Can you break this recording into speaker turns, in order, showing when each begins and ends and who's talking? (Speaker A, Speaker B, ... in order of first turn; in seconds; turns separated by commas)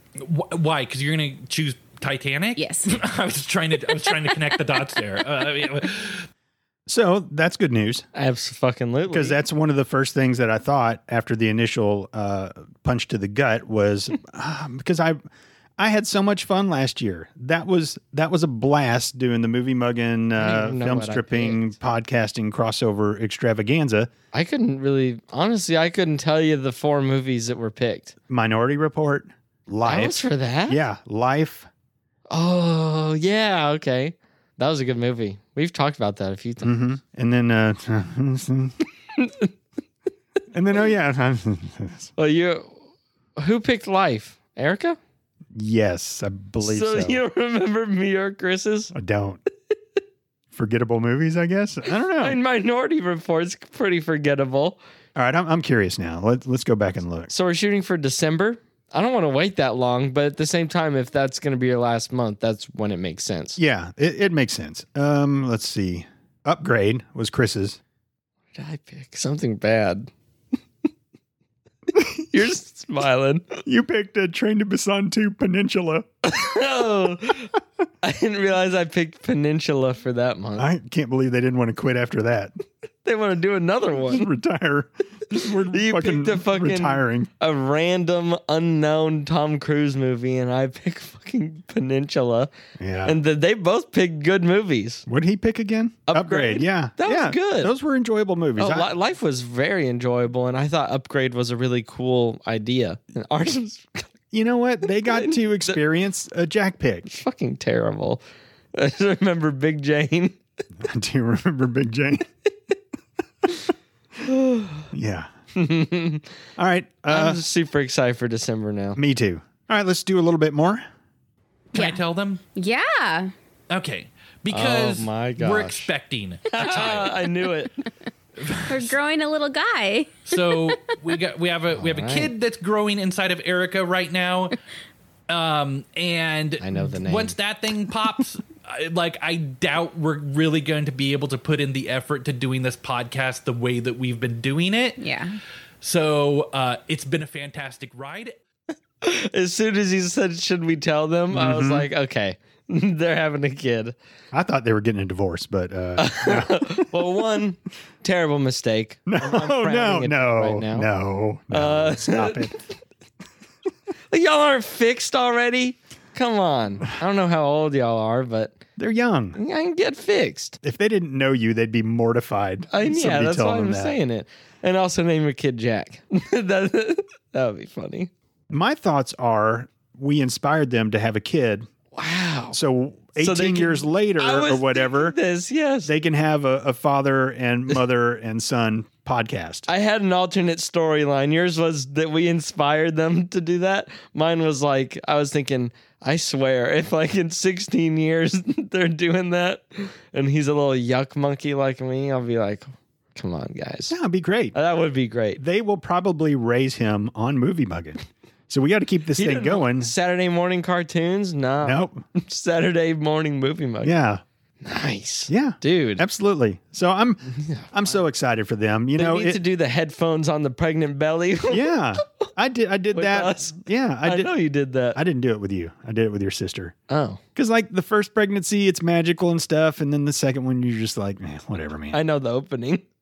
Speaker A: 0.2-6.3, Speaker B: 2.6-3.0, Speaker C: 6.9-8.1, Speaker D: 8.1-9.4, Speaker C: 9.1-15.2, Speaker C: 15.8-24.1, Speaker D: 20.4-21.6, Speaker D: 24.3-28.1, Speaker C: 28.3-30.2, Speaker D: 29.8-30.8, Speaker C: 30.7-31.7, Speaker D: 32.3-36.7, Speaker C: 36.6-38.8, Speaker D: 39.2-39.5, Speaker C: 40.5-42.1, Speaker D: 42.2-42.8, Speaker D: 43.4-45.0, Speaker C: 45.5-47.2, Speaker D: 46.6-48.9, Speaker C: 48.9-49.4, Speaker C: 50.5-52.4, Speaker D: 52.2-54.8, Speaker C: 55.1-57.3, Speaker D: 57.3-63.6, Speaker C: 63.6-67.8, Speaker D: 68.5-70.1, Speaker D: 72.0-73.6, Speaker C: 73.7-76.1, Speaker D: 76.2-80.7, Speaker C: 80.6-82.5, Speaker D: 83.0-84.3, Speaker C: 84.1-87.3, Speaker D: 85.4-92.5, Speaker C: 92.8-93.2, Speaker D: 93.0-95.0, Speaker C: 95.1-98.9, Speaker D: 96.1-97.7, Speaker D: 98.6-104.1, Speaker C: 104.3-107.1, Speaker D: 105.1-105.8, Speaker D: 107.1-108.2, Speaker D: 108.7-110.4, Speaker C: 110.8-112.3, Speaker D: 114.2-114.9, Speaker C: 114.9-115.3, Speaker D: 115.5-116.3, Speaker C: 116.6-117.4, Speaker D: 117.1-119.0, Speaker C: 119.0-120.8, Speaker A: 121.7-122.4, Speaker B: 121.7-122.0, Speaker B: 122.5-123.3, Speaker A: 123.7-127.3, Speaker D: 124.5-125.9, Speaker D: 126.5-127.8, Speaker A: 128.4-128.9, Speaker B: 128.7-130.8, Speaker A: 130.3-134.6, Speaker D: 131.7-132.3, Speaker A: 135.3-145.0, Speaker D: 136.6-137.3, Speaker B: 145.0-145.4, Speaker A: 145.8-148.3, Speaker D: 149.0-154.0, Speaker C: 151.3-151.9, Speaker C: 154.3-156.9, Speaker D: 156.0-160.9, Speaker C: 159.1-162.6, Speaker D: 161.5-162.7, Speaker D: 164.1-168.6, Speaker C: 168.8-169.4, Speaker D: 169.3-170.6, Speaker C: 170.6-174.0, Speaker D: 172.7-178.1, Speaker C: 178.5-181.7, Speaker D: 181.9-182.6, Speaker C: 182.5-185.2, Speaker D: 183.2-185.9, Speaker C: 185.9-189.7, Speaker D: 189.7-204.0, Speaker C: 203.9-204.6, Speaker D: 204.5-205.4, Speaker C: 205.4-209.9, Speaker D: 209.2-213.9, Speaker C: 211.6-212.0, Speaker C: 213.8-214.2, Speaker D: 214.6-216.0, Speaker C: 215.3-219.4, Speaker D: 217.3-217.9, Speaker D: 219.0-221.7, Speaker C: 221.5-224.3, Speaker D: 222.9-225.0, Speaker C: 224.9-226.8, Speaker D: 226.9-227.2, Speaker C: 227.3-232.0, Speaker D: 231.9-232.8